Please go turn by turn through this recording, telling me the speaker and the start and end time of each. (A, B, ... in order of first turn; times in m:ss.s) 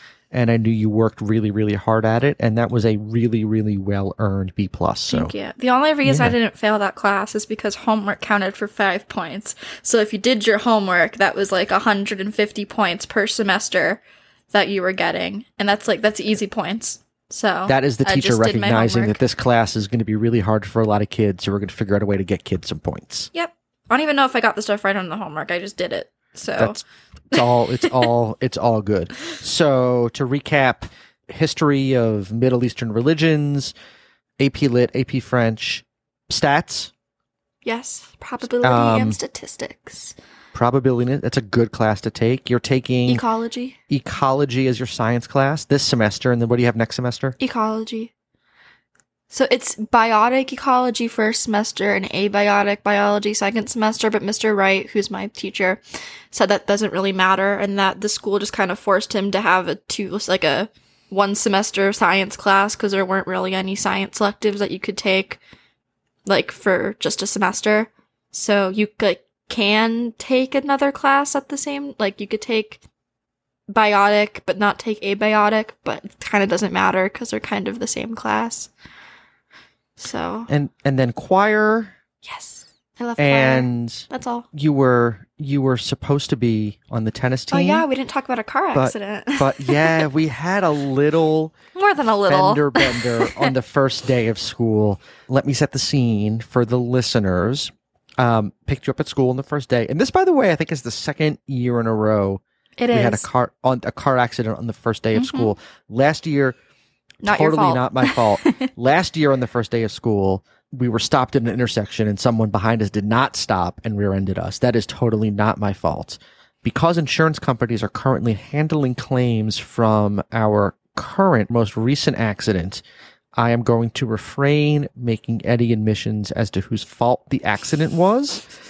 0:00.3-0:05.3 A
0:05.1-0:14.0 B
0:06.0-0:06.3 A
0:14.5-0:19.2 B
0:17.7-0:23.3 A
0:23.3-0:26.8 B
0:26.6-0:33.7 A
0:27.3-0:28.1 B
0:34.4-0:36.9 A
0:37.6-0:40.1 B
0:38.6-0:39.2 A
0:40.5-0:43.2 A
0:43.0-0:43.8 B
0:43.9-0:47.4 A
0:47.4-0:48.1 B
0:49.3-1:05.4 B
1:06.2-1:12.8 B
1:13.7-1:18.7 B
1:20.0-1:20.5 B
1:20.5-1:21.9 A
1:22.2-1:24.4 B
1:23.2-1:27.8 A
1:27.5-1:30.1 B
1:28.7-1:31.5 A
1:31.7-1:33.5 B
1:32.3-1:46.6 A
1:42.8-1:43.3 B
1:45.1-1:45.5 B
1:47.2-1:48.7 B
1:47.2-2:02.8 A
2:03.4-2:08.4 A